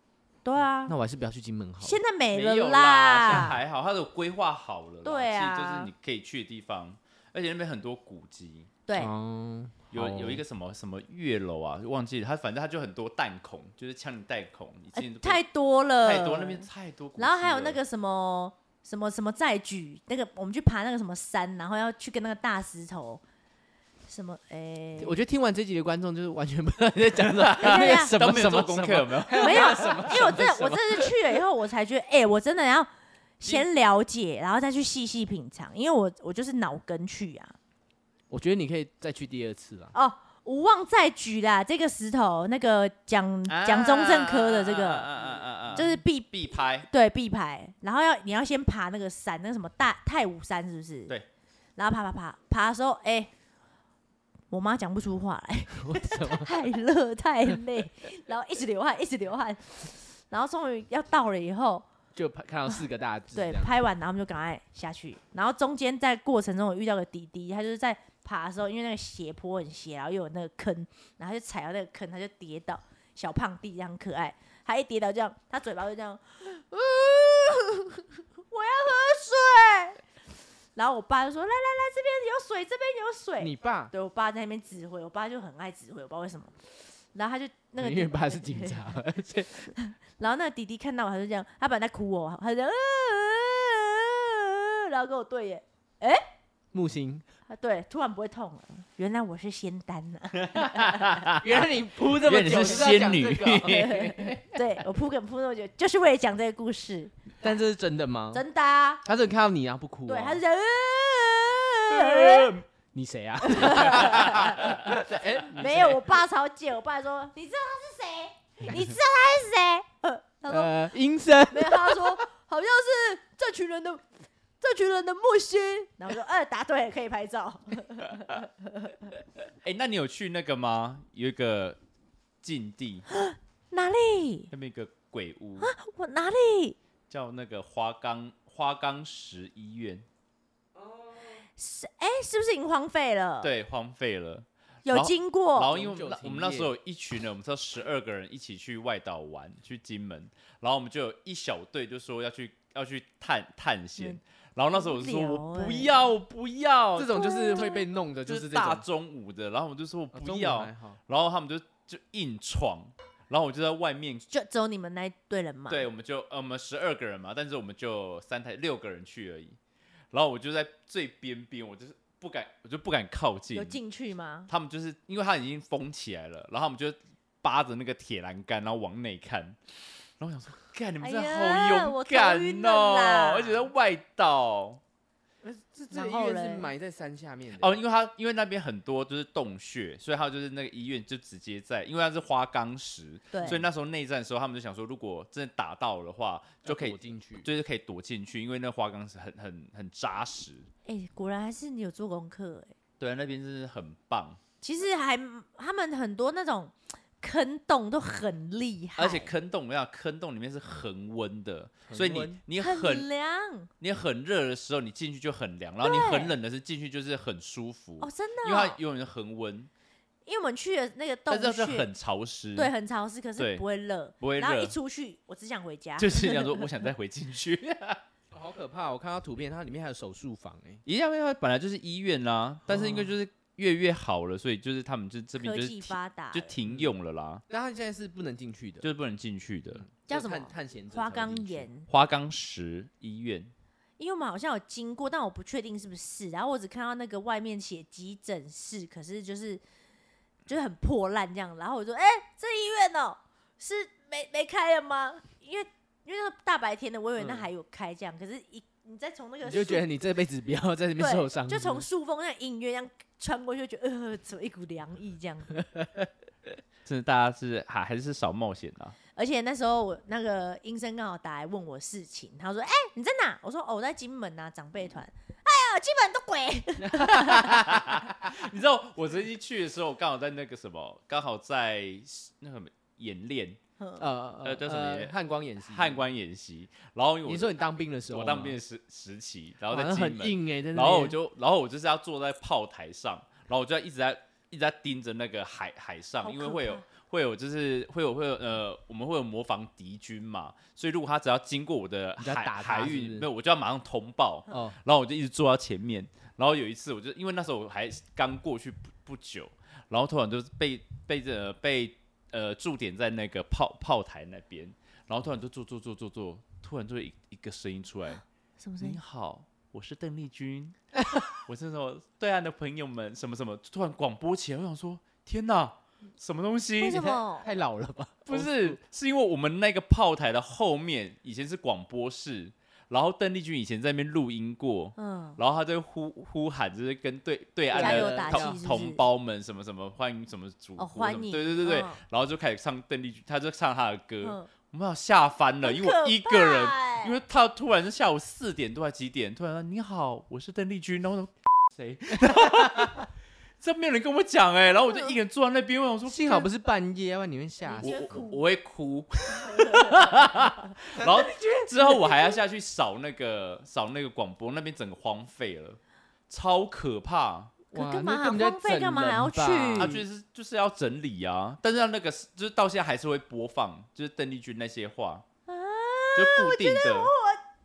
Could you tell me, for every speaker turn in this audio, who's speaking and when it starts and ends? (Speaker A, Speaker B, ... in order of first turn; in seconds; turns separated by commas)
Speaker A: 0.4-0.9, Speaker B: 0.9-2.0, Speaker A: 1.8-3.5, Speaker C: 2.3-8.7, Speaker B: 3.3-3.6, Speaker A: 5.0-5.9, Speaker A: 8.9-9.1, Speaker B: 8.9-10.4, Speaker C: 9.9-15.4, Speaker A: 14.9-16.7, Speaker C: 16.0-17.8, Speaker A: 17.2-23.2, Speaker A: 24.1-25.2, Speaker B: 25.0-31.2, Speaker C: 27.1-30.2, Speaker A: 27.6-28.2, Speaker A: 29.4-37.5, Speaker B: 38.3-39.9, Speaker A: 39.9-45.1, Speaker C: 43.5-46.9, Speaker A: 45.7-46.3, Speaker A: 46.9-51.1, Speaker A: 51.8-53.3, Speaker A: 54.5-61.9, Speaker B: 55.8-56.5, Speaker B: 62.1-63.7, Speaker A: 63.3-80.0, Speaker A: 80.8-86.5, Speaker B: 83.4-83.9, Speaker A: 87.1-89.0, Speaker B: 87.8-89.7, Speaker A: 89.7-96.2, Speaker B: 96.7-97.2, Speaker A: 97.5-101.2, Speaker C: 100.5-104.4, Speaker B: 101.4-104.1, Speaker A: 103.7-107.1, Speaker B: 107.4-108.4, Speaker A: 108.3-109.0, Speaker B: 109.0-110.4, Speaker A: 110.1-112.6, Speaker C: 111.9-112.6, Speaker B: 112.9-116.0, Speaker A: 113.4-114.8, Speaker C: 113.9-115.7, Speaker A: 115.5-120.8, Speaker B: 120.5-122.2, Speaker A: 121.5-124.0, Speaker A: 124.6-129.1, Speaker C: 129.6-131.8, Speaker C: 132.4-133.1, Speaker A: 133.1-134.5, Speaker C: 134.5-135.7, Speaker A: 135.6-136.8, Speaker C: 137.1-140.1, Speaker A: 141.6-143.5, Speaker C: 143.4-157.7, Speaker A: 144.8-145.7, Speaker B: 145.7-146.7, Speaker A: 154.7-155.9, Speaker B: 156.9-158.8, Speaker A: 157.1-157.8, Speaker C: 158.2-164.3, Speaker B: 160.1-161.0, Speaker A: 164.3-165.9, Speaker C: 165.7-169.6, Speaker C: 170.1-173.8, Speaker A: 173.5-174.5, Speaker C: 174.5-179.6, Speaker C: 180.2-184.8, Speaker A: 181.0-183.7, Speaker B: 185.4-187.8, Speaker A: 185.9-186.7, Speaker C: 187.6-200.7, Speaker A: 193.3-193.6, Speaker B: 196.6-197.5, Speaker A: 200.9-202.7, Speaker C: 203.0-204.4, Speaker A: 204.6-209.3, Speaker C: 209.0-213.1, Speaker B: 211.9-212.4, Speaker A: 212.6-213.7, Speaker C: 213.8-219.7, Speaker A: 215.8-216.3, Speaker A: 218.0-218.8, Speaker A: 220.2-221.9, Speaker C: 221.3-222.7, Speaker A: 222.6-226.6, Speaker C: 223.4-223.6, Speaker C: 224.2-224.8, Speaker C: 226.0-228.0, Speaker B: 228.3-230.8, Speaker C: 230.9-237.4, Speaker B: 232.7-233.1, Speaker A: 235.4-236.6, Speaker B: 237.5-238.9, Speaker C: 238.8-239.9, Speaker B: 239.8-241.7, Speaker A: 240.1-241.9, Speaker C: 241.9-243.5, Speaker A: 244.0-249.6, Speaker A: 250.5-259.8, Speaker B: 257.2-257.5, Speaker B: 259.4-261.9, Speaker A: 261.0-265.6, Speaker B: 265.7-266.1, Speaker C: 266.9-269.0, Speaker A: 269.1-277.6, Speaker B: 276.9-278.0, Speaker C: 277.3-283.6, Speaker A: 283.8-284.0, Speaker B: 284.0-286.0, Speaker C: 284.4-318.2, Speaker B: 287.2-288.6, Speaker B: 289.7-291.1, Speaker A: 296.2-296.9, Speaker B: 302.2-303.3, Speaker B: 304.5-304.8, Speaker A: 318.6-319.0, Speaker C: 318.8-327.1, Speaker B: 321.0-321.3, Speaker A: 326.8-327.5, Speaker B: 326.9-328.8, Speaker C: 328.3-353.1, Speaker A: 335.0-335.4, Speaker B: 337.7-338.6, Speaker A: 337.7-339.0, Speaker A: 340.8-342.0, Speaker A: 344.2-344.5, Speaker A: 345.6-347.2, Speaker B: 352.4-352.9, Speaker C: 353.6-356.5, Speaker A: 354.9-355.1, Speaker B: 356.1-358.1, Speaker A: 357.6-358.4, Speaker C: 357.8-367.6, Speaker A: 359.3-360.7, Speaker B: 360.9-362.1, Speaker A: 367.7-370.0, Speaker B: 367.7-370.0, Speaker C: 369.8-375.2, Speaker A: 375.5-377.4, Speaker C: 376.1-377.1